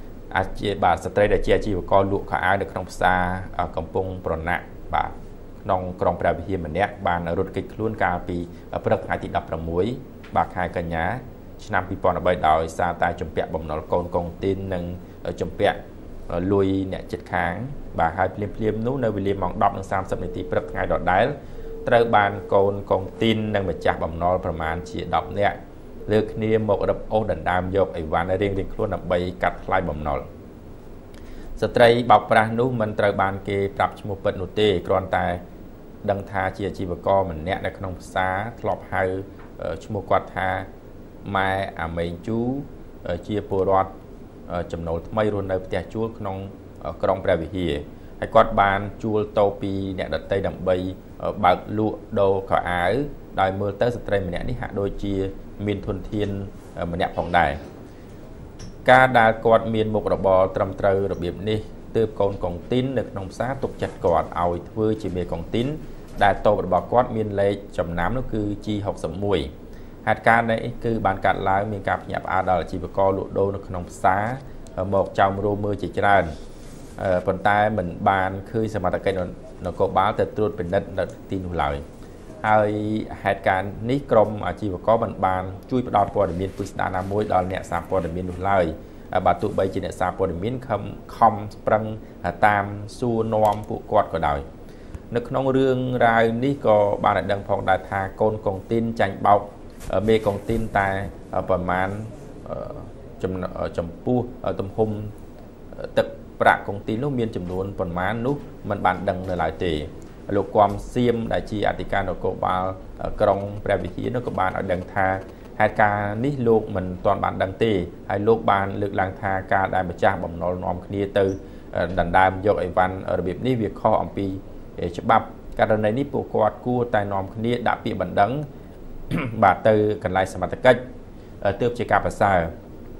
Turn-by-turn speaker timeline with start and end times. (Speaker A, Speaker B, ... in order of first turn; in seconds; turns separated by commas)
Speaker A: 0.3-30.3, Speaker A: 31.6-35.4, Speaker A: 36.0-40.7, Speaker A: 41.2-43.9, Speaker A: 44.5-57.6, Speaker A: 58.9-69.5, Speaker A: 70.0-76.3, Speaker A: 77.0-81.8, Speaker A: 82.4-94.5, Speaker A: 95.1-105.1, Speaker A: 105.8-128.5, Speaker A: 129.1-130.8, Speaker A: 131.4-132.5